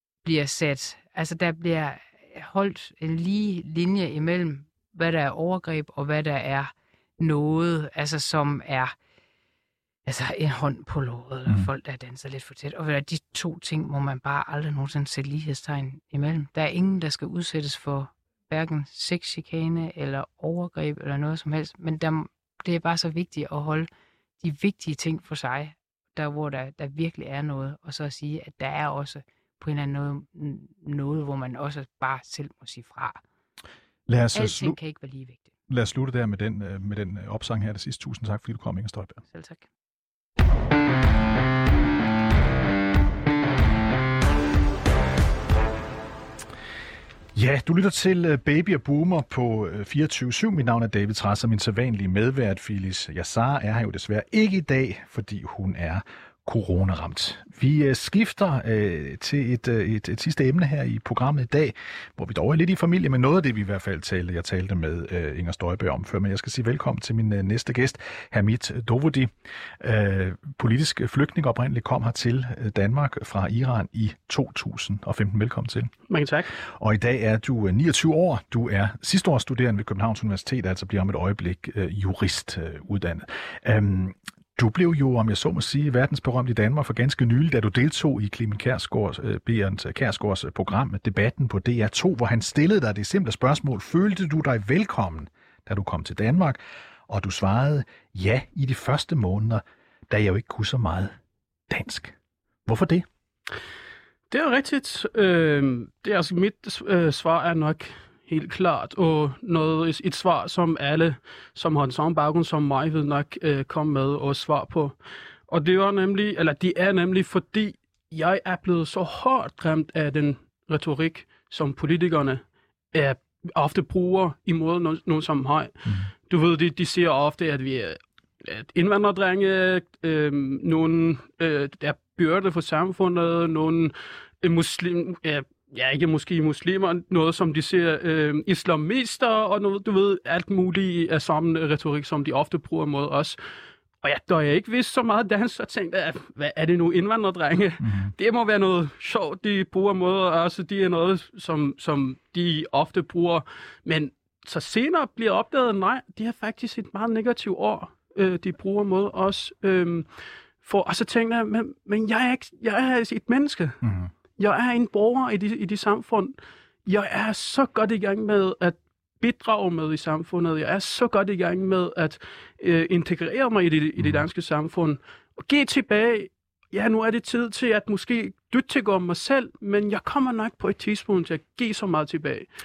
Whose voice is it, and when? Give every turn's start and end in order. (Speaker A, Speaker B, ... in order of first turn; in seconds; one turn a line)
Speaker A: 0.2-8.9
Speaker A: 10.0-23.9
Speaker A: 24.4-33.2
Speaker B: 34.1-34.8
Speaker A: 34.3-35.5
Speaker B: 35.7-39.2
Speaker A: 39.3-39.7
Speaker B: 47.3-75.9
Speaker C: 76.1-76.5
Speaker B: 76.6-101.1
Speaker B: 101.7-103.0
Speaker C: 104.3-115.0
Speaker C: 115.5-143.4
Speaker C: 144.0-160.1
Speaker B: 147.8-148.1
Speaker C: 160.6-163.8
Speaker B: 163.8-164.1
Speaker C: 164.4-166.3
Speaker C: 166.8-182.5